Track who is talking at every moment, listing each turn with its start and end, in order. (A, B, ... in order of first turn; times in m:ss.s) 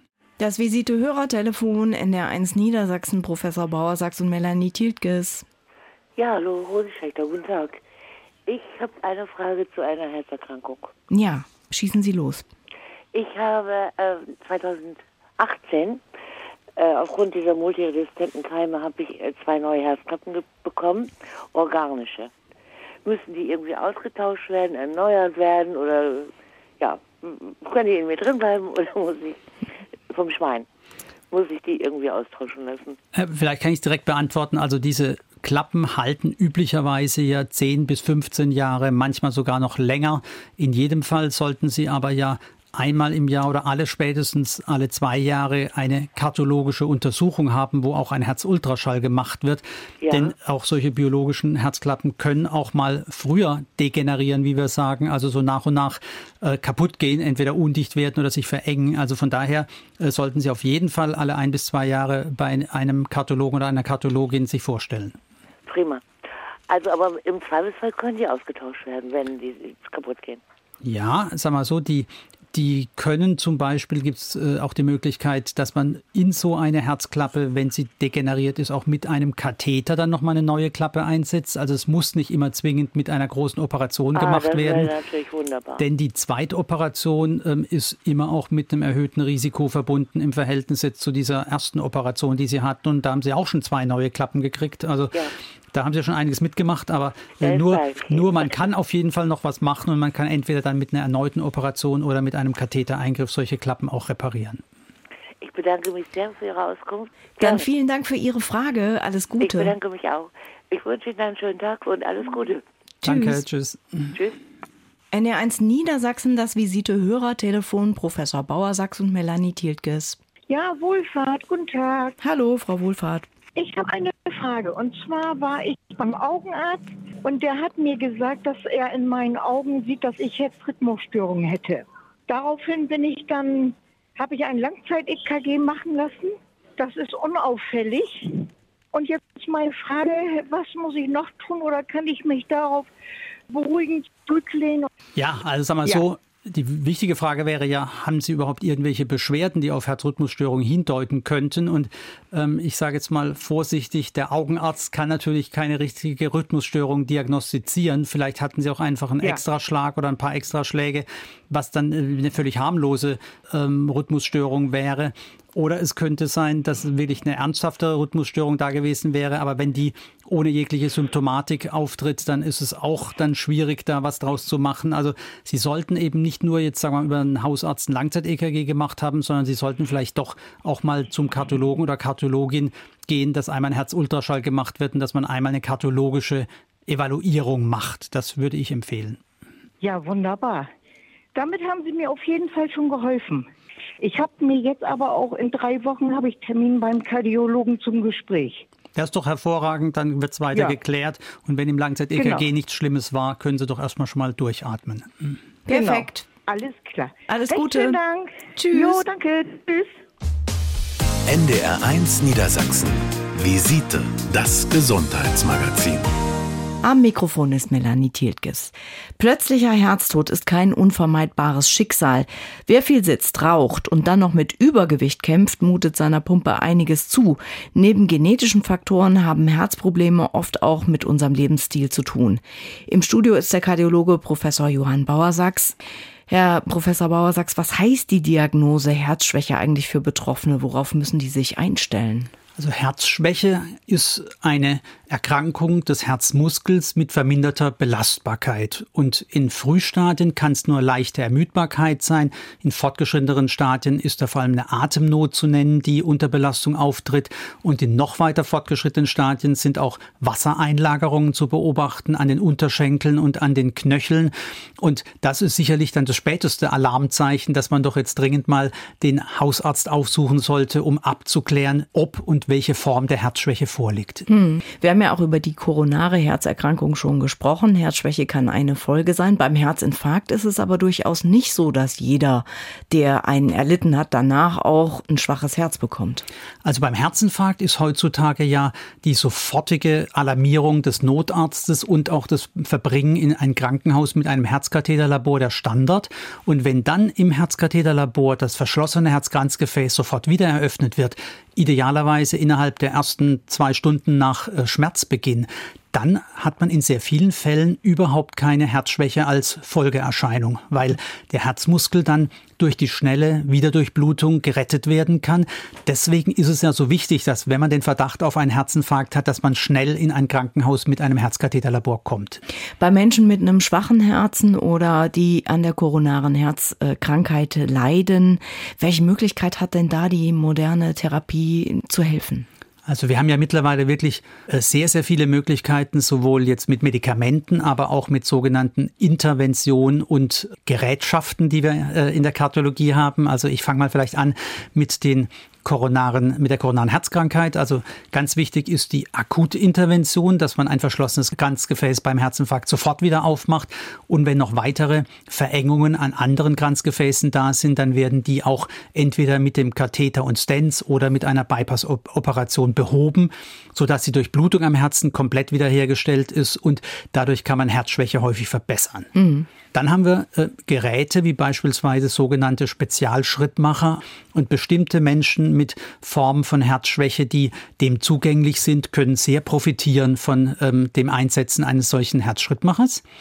0:00.4-0:05.4 A
0:06.2-0:07.8 B
0:08.5-0:10.9 B
0:11.1-0:12.5 A
0:13.1-0:16.0 B
0:16.8-0:22.3 B
0:23.0-0:29.4 B
0:30.1-0:30.7 B
0:31.3-0:33.0 B
0:33.1-1:05.2 C
0:50.0-0:50.3 B
1:05.7-1:06.0 B
1:06.7-1:10.4 B
1:10.8-1:24.9 C
1:24.1-1:25.8 B
1:25.8-1:44.6 C
1:37.4-1:38.7 B
1:45.4-1:47.7 B
1:47.4-1:49.7 A
1:49.4-1:52.6 B
1:53.0-1:53.4 A
1:53.0-1:54.2 C
1:55.1-2:00.2 A
2:00.5-2:02.2 D
2:02.2-2:03.3 A
2:03.6-2:22.9 D
2:23.5-2:24.9 D
2:25.2-3:09.2 C
3:09.8-3:10.7 D
3:11.3-3:13.5 D
3:14.0-3:18.6 D
3:18.9-3:25.4 C
3:22.1-3:22.5 D
3:25.7-3:26.2 A
3:25.7-3:30.0 D
3:27.3-3:28.0 A
3:28.5-3:29.0 A
3:31.3-3:36.1 E
3:36.8-4:02.3 A
4:02.6-4:34.2 C
4:34.3-4:46.2 A
4:46.6-5:22.4 C
5:22.8-5:32.5 A
5:32.8-6:09.1 C
6:09.1-6:09.5 A
6:09.7-6:23.0 C